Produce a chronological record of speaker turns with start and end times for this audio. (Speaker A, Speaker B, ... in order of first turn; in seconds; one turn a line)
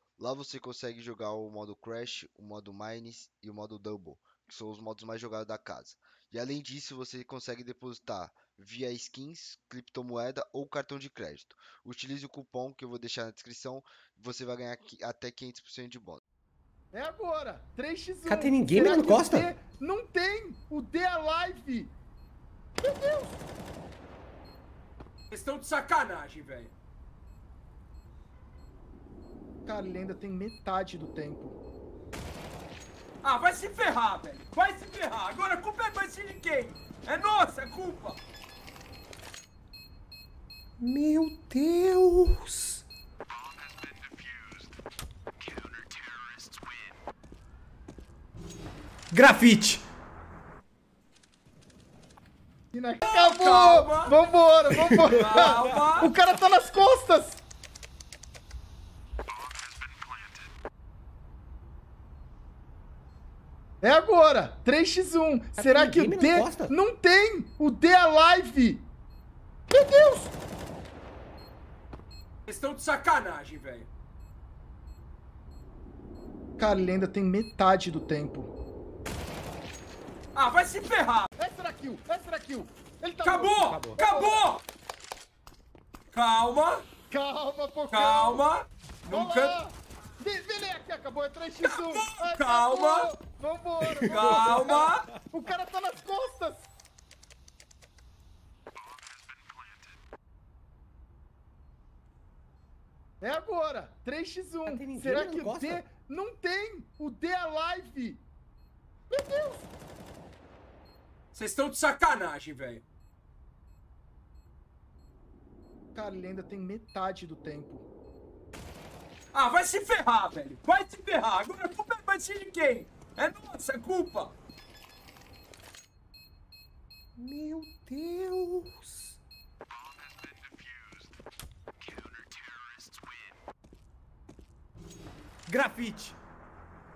Speaker A: 0.2-16.2
Speaker B: 16.9-21.9
Speaker C: 18.3-19.5
Speaker B: 22.8-23.4
Speaker D: 25.3-26.7
Speaker B: 29.7-31.6
Speaker D: 33.2-38.2
Speaker C: 40.8-42.8
Speaker C: 49.1-49.8
Speaker B: 52.7-57.4
Speaker D: 53.0-54.1
Speaker D: 55.1-56.1
Speaker B: 63.8-68.9
Speaker C: 65.6-66.7
Speaker B: 69.7-70.3
Speaker D: 72.5-73.9
Speaker B: 76.6-78.5
Speaker D: 80.3-81.3
Speaker B: 81.4-84.5
Speaker D: 83.2-84.6
Speaker C: 83.7-84.0
Speaker D: 86.1-86.9
Speaker B: 87.1-88.5
Speaker D: 87.9-89.6
Speaker B: 89.1-96.7
Speaker D: 91.6-93.1
Speaker C: 93.9-94.7
Speaker D: 94.1-95.1
Speaker B: 103.2-108.2
Speaker C: 104.7-105.8
Speaker B: 109.1-109.7
Speaker D: 111.3-112.8
Speaker B: 116.0-117.9
Speaker D: 119.3-124.3
Speaker C: 127.2-129.2
Speaker C: 135.5-136.1